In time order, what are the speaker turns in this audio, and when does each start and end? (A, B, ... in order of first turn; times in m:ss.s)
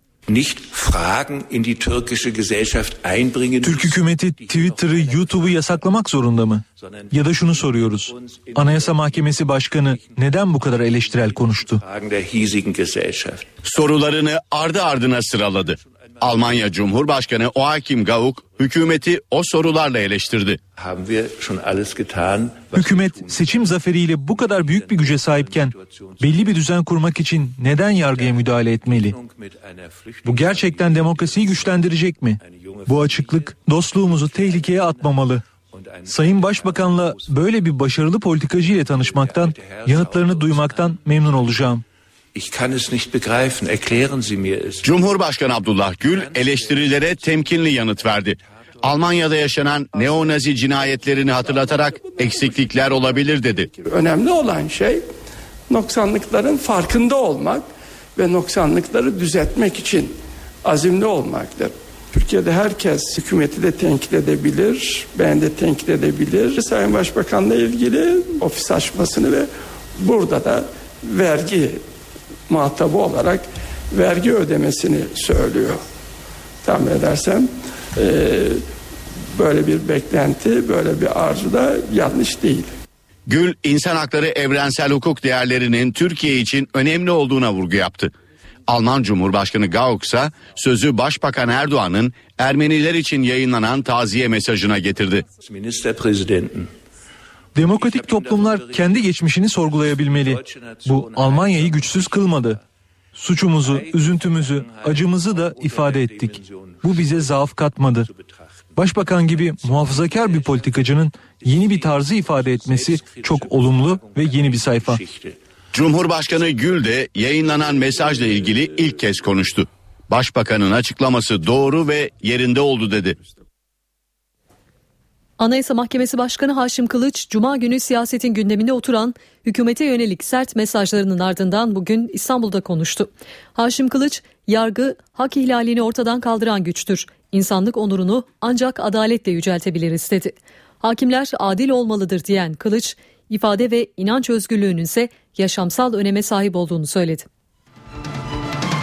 0:00.3-0:06.0 A
0:03.6-0:11.8 B
0:06.8-0:13.5 A
0:13.6-0:20.6 C
0:15.8-0:16.7 A
0:20.8-0:26.7 A
0:22.7-0:29.2 B
0:27.9-0:31.9 A
0:30.2-0:35.4 B
0:32.4-0:37.4 A
0:36.1-0:41.8 B
0:38.7-0:41.6 A
0:42.4-0:44.9 A
0:44.8-0:53.7 C
0:46.0-0:48.1 A
0:49.9-0:52.8 A
0:53.8-0:55.0 D
0:55.7-1:11.8 D
1:12.5-1:15.8 D
1:16.6-1:18.6 D
1:19.4-1:22.7 D
1:23.3-1:28.1 C
1:28.7-1:35.2 C
1:35.4-1:36.7 A
1:37.6-1:42.6 B
1:37.6-1:42.6 A
1:43.2-1:48.1 B
1:43.5-1:55.4 A
1:48.8-1:55.0 B
1:55.7-2:03.2 C
1:57.5-1:59.3 A
2:05.4-2:27.3 E